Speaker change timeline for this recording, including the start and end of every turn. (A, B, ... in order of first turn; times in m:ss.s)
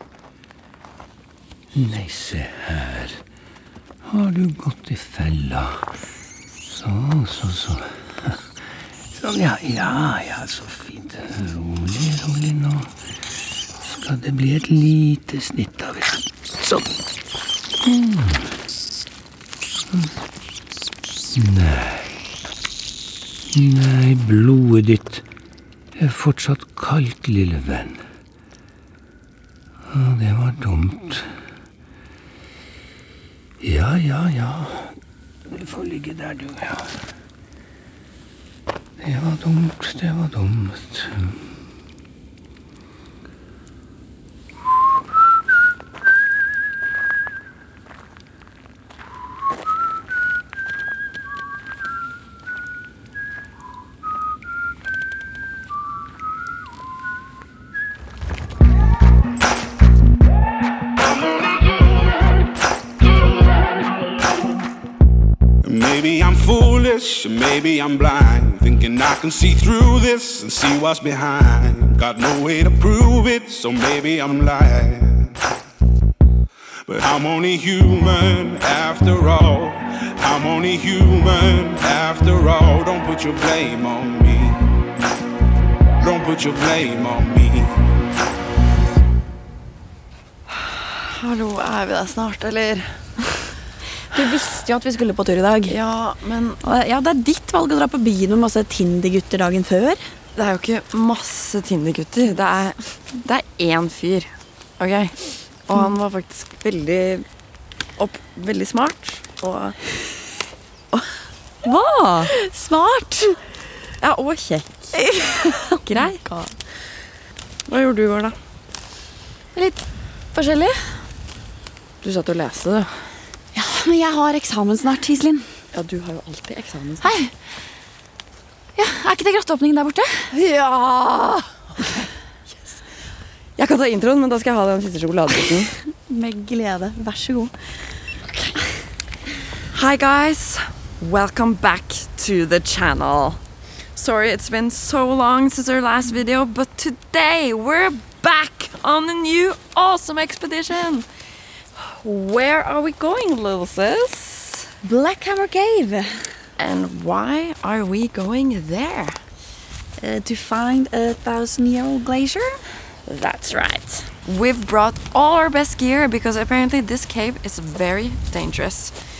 0:01.7-0:03.2 A
0:04.1-0:05.8 A
0:06.7-0:07.8 A
0:09.2-0:12.9 A
0:13.8-0:16.9 A
0:17.9-0:18.4 A
0:21.3-0:22.0 A
0:23.5-0:25.2 A
0:26.0-0:28.0 A
0:29.9-0:31.3 A
0:33.6-0:34.9 A
0:35.5-0:36.9 A
0:39.0-0:41.3 A
1:05.6-1:15.4 B
1:16.9-1:24.7 B
1:26.0-1:27.8 B
1:30.8-1:33.0 C
1:34.1-1:35.8 D
1:35.7-1:36.6 C
1:36.6-1:40.0 D
1:40.3-1:47.2 C
1:48.0-1:49.8 C
1:51.6-1:53.4 D
1:54.0-1:56.2 C
1:55.0-1:56.5 D
1:57.7-1:58.3 C
1:59.5-1:59.8 D
2:00.3-2:00.9 D
2:02.0-2:02.9 C
2:03.5-2:05.5 D
2:05.7-2:07.1 C
2:07.0-2:07.3 D
2:08.8-2:12.0 D
2:13.6-2:15.7 C
2:16.1-2:17.5 D
2:19.7-2:23.4 C
2:24.0-2:31.1 C
2:31.8-2:34.7 C
2:34.8-2:36.3 D
2:36.6-2:39.2 C
2:40.0-2:44.1 D
2:44.2-2:48.9 C